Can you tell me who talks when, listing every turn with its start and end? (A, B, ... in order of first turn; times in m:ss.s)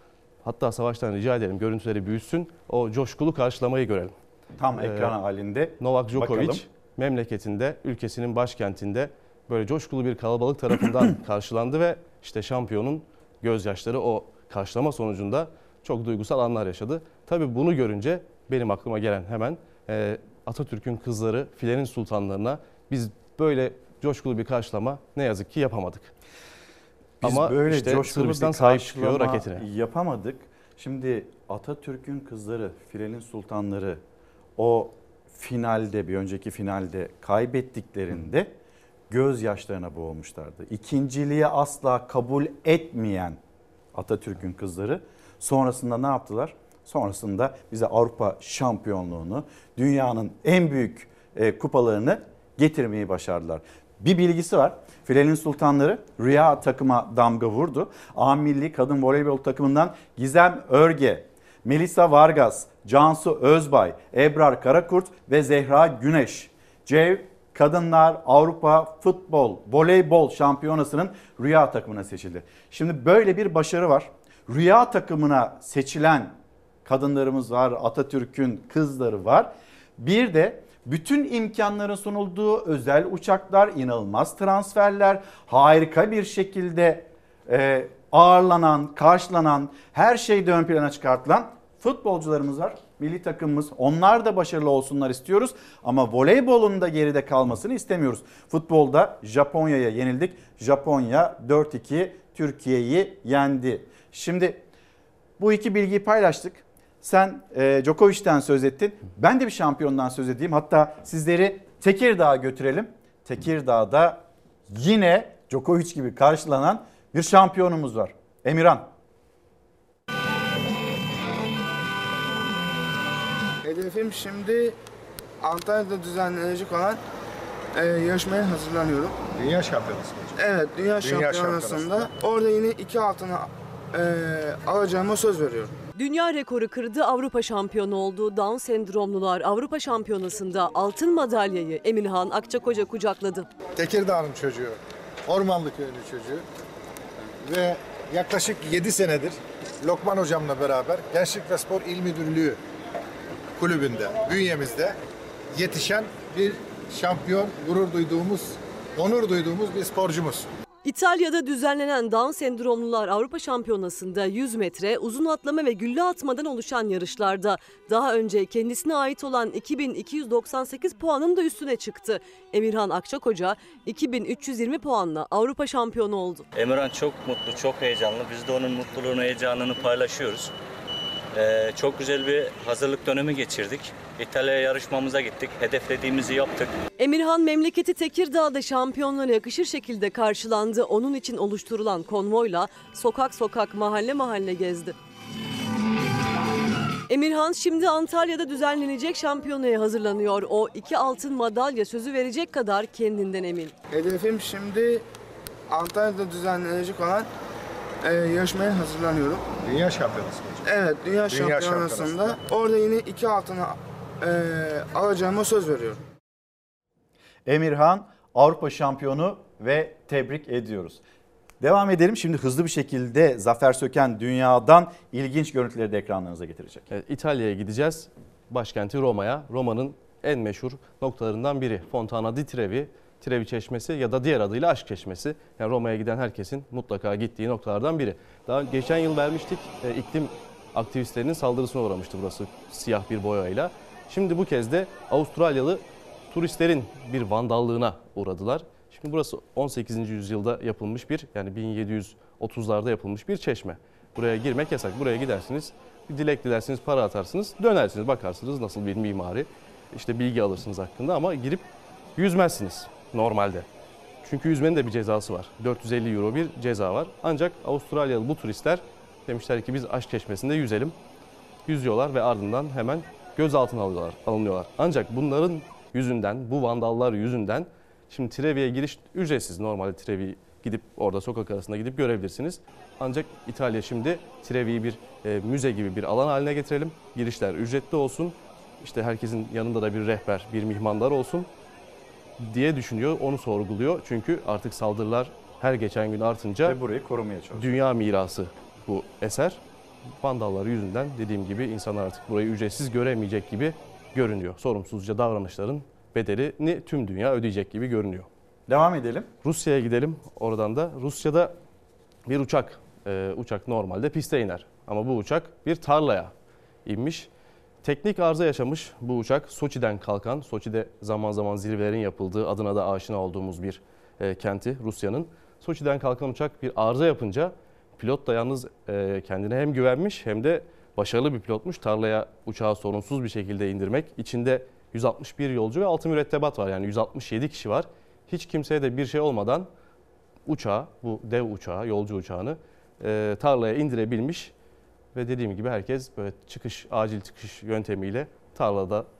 0:00.4-0:04.1 A
0:04.6-0:06.6 B
0:04.8-0:05.1 A
0:05.8-0:26.1 A
0:27.2-0:34.0 B
0:27.2-0:29.6 A
0:34.6-0:38.5 B
0:39.1-0:43.4 B
0:43.9-1:44.6 B
1:45.4-1:58.9 B
2:03.6-2:04.8 C
2:05.4-2:07.0 C
2:07.7-2:09.2 C
2:09.7-2:10.0 D
2:10.3-2:15.8 C
2:16.0-2:23.5 E
2:23.8-2:24.8 D
2:25.3-2:26.4 D
2:27.5-2:32.6 D
2:33.6-2:34.9 D
2:35.6-2:40.4 D
2:40.8-2:56.5 E
2:56.5-3:00.5 F
3:01.3-3:06.7 F
3:07.0-3:14.9 E
3:17.1-3:23.7 E
3:23.9-3:25.0 C
3:25.7-3:27.3 C
3:28.0-3:29.4 C
3:29.9-3:30.4 D
3:30.6-3:36.0 C
3:37.4-3:41.0 B
3:41.6-3:46.9 B
3:46.9-4:21.6 A
4:22.2-4:23.6 A
4:24.2-4:30.9 A
4:31.7-4:51.5 A
4:52.4-4:56.8 A
4:56.6-4:57.8 B
4:57.5-4:59.6 A
5:00.2-5:08.2 A
5:08.7-5:09.3 B
5:09.4-5:11.5 A
5:12.3-5:16.3 A
5:16.8-5:17.3 A
5:17.8-5:39.7 A
5:40.5-5:44.5 A
5:45.2-5:49.0 A